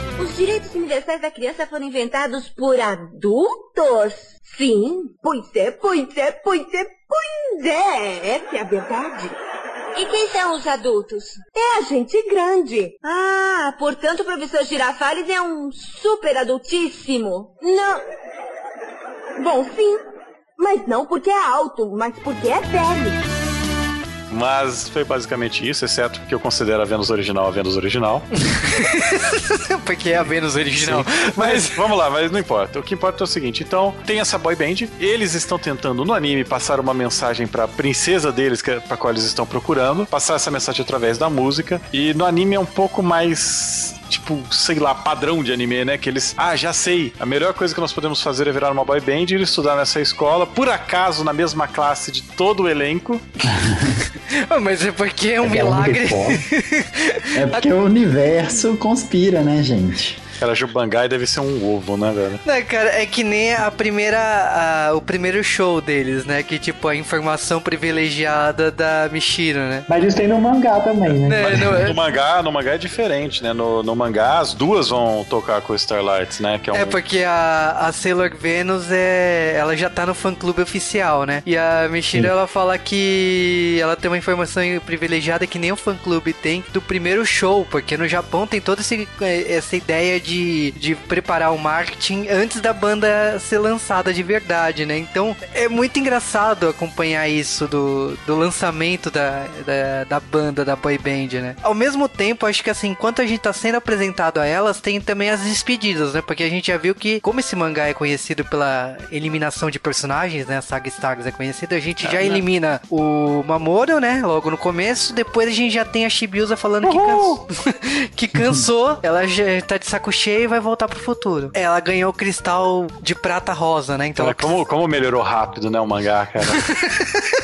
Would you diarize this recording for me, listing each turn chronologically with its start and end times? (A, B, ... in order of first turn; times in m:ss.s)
0:00.2-0:09.4 A
0:09.9-0:18.0 A
0:19.4-0:20.0 A
0:20.6-0:23.2 A
0:24.3-0:28.3 B
0:28.4-0:31.8 C
0:30.8-0:53.3 B
0:53.5-0:53.9 D
0:54.3-0:57.7 C
0:55.4-0:56.4 E
0:57.3-1:00.2 D
1:00.4-1:02.4 B
1:02.4-1:09.9 C
1:09.9-1:11.8 E
1:11.0-1:17.0 B
1:11.3-1:12.0 C
1:16.7-2:04.5 C
1:52.0-1:52.4 B
1:56.8-1:57.4 B
2:04.2-2:06.7 B
2:06.9-2:07.2 C